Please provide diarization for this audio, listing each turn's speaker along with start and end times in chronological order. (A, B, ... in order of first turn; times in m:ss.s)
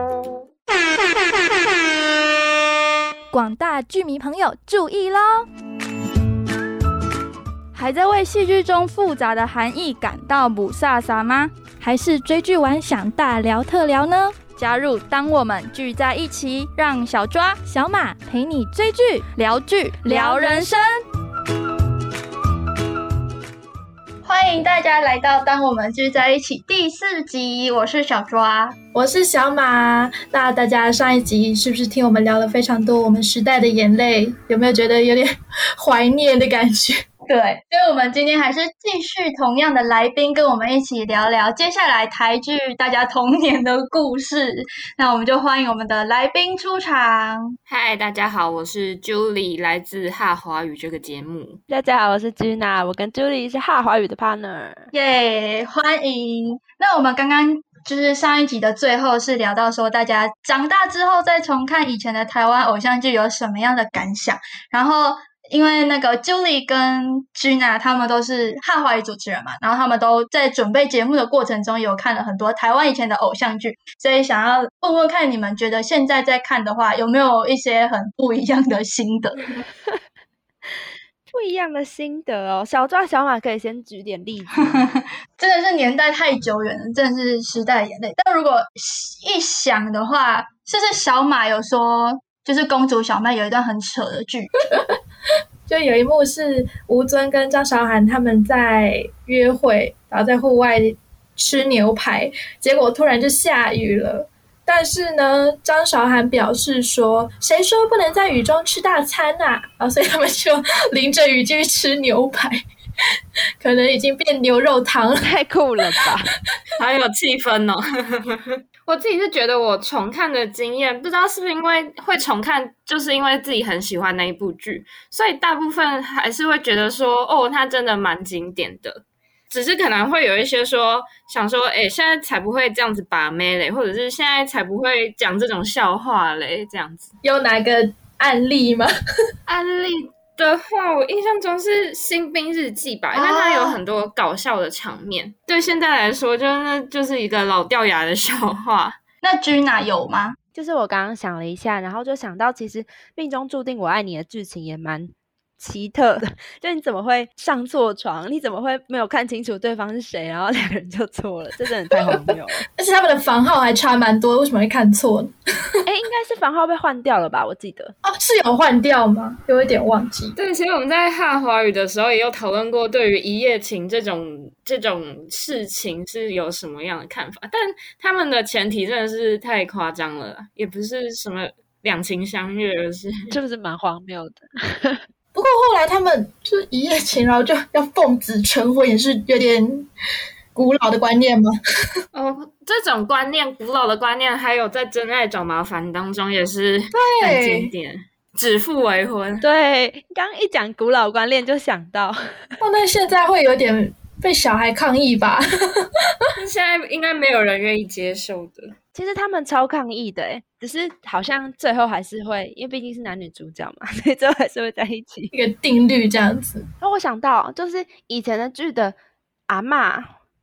0:03.3-0:05.4 A
0:07.7-0:20.9 A
0:24.2-0:28.8 B
0:28.9-0:37.0 C
0:37.3-0:47.6 B
0:47.7-0:51.6 D
0:51.7-0:54.9 E
0:54.9-1:19.5 B
1:21.3-1:24.7 E
1:24.7-1:34.5 B
1:35.7-1:52.6 C
1:53.6-1:55.3 C
1:55.2-1:56.3 E
1:56.8-2:17.1 D
2:17.2-2:18.9 C
2:19.5-2:29.0 D
2:23.1-2:23.8 B
2:29.2-2:30.4 B
2:30.5-2:42.6 E
2:42.8-2:45.3 C
2:45.8-2:47.9 E
2:48.0-2:50.3 C
2:50.4-3:03.2 D
3:03.3-3:05.0 E
3:05.3-3:09.9 C
3:10.5-3:11.5 C
3:12.1-3:19.4 D
3:16.9-3:17.7 C
3:19.4-3:22.4 E
3:22.6-3:25.9 C
3:26.4-3:28.7 D
3:28.9-3:35.3 E
3:35.3-3:36.6 C
3:36.8-3:39.0 E
3:39.5-3:40.1 E